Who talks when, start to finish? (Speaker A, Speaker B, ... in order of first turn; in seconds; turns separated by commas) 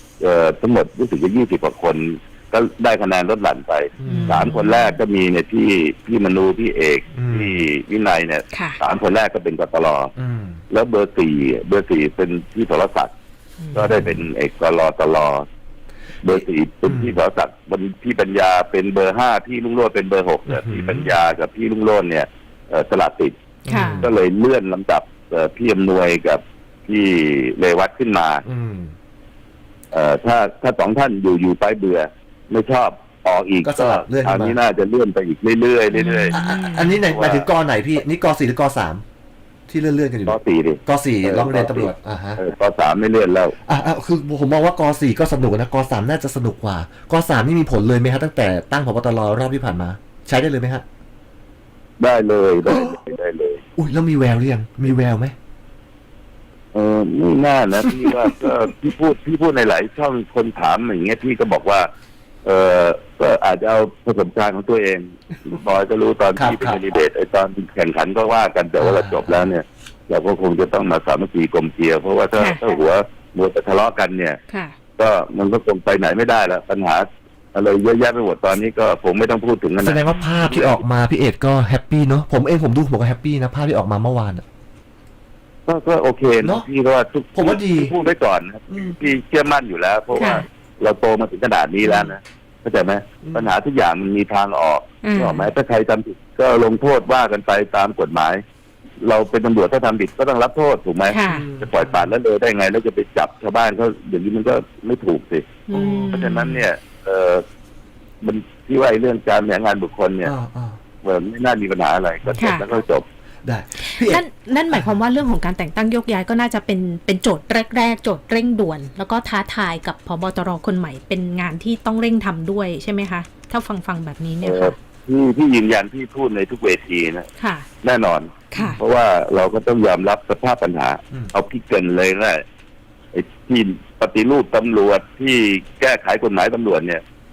Speaker A: 0.2-10.1, Speaker B: 4.0-4.5, Speaker C: 4.0-5.0, Speaker B: 7.1-7.6, Speaker C: 8.5-8.8, Speaker B: 10.2-10.6, Speaker A: 10.7-13.1, Speaker C: 13.6-13.9, Speaker B: 13.7-14.2, Speaker A: 13.7-15.5, Speaker A: 16.2-23.4, Speaker B: 16.3-17.2, Speaker B: 20.5-21.1, Speaker B: 23.6-24.1, Speaker C: 23.7-24.0, Speaker A: 24.0-28.4, Speaker B: 28.4-28.9, Speaker A: 29.9-36.4, Speaker B: 33.6-34.6, Speaker C: 35.9-37.0, Speaker B: 36.3-39.0, Speaker A: 37.1-37.5, Speaker B: 39.7-42.4, Speaker A: 40.3-43.6, Speaker B: 43.7-50.8, Speaker A: 52.0-53.6, Speaker B: 52.6-53.0, Speaker B: 53.8-55.4, Speaker A: 56.7-61.9, Speaker B: 57.8-58.5, Speaker A: 62.4-74.4, Speaker B: 66.4-66.8, Speaker B: 68.8-69.5, Speaker C: 74.5-74.8, Speaker A: 75.0-80.8, Speaker B: 79.8-84.5, Speaker A: 85.7-98.4, Speaker B: 86.4-86.7, Speaker B: 87.3-87.9, Speaker B: 88.7-89.0, Speaker C: 90.2-90.4, Speaker B: 93.2-93.5, Speaker C: 95.0-95.5, Speaker A: 99.0-107.4, Speaker C: 101.1-101.5, Speaker B: 101.3-102.1, Speaker C: 105.7-106.5, Speaker B: 105.7-106.6, Speaker A: 108.2-110.3, Speaker B: 110.2-110.8, Speaker A: 111.0-113.1, Speaker C: 112.4-112.6, Speaker B: 113.4-114.9, Speaker C: 113.8-124.8, Speaker A: 124.4-127.3, Speaker C: 127.4-127.7, Speaker A: 127.8-132.4, Speaker C: 128.5-128.8, Speaker B: 128.5-128.8, Speaker A: 133.1-137.0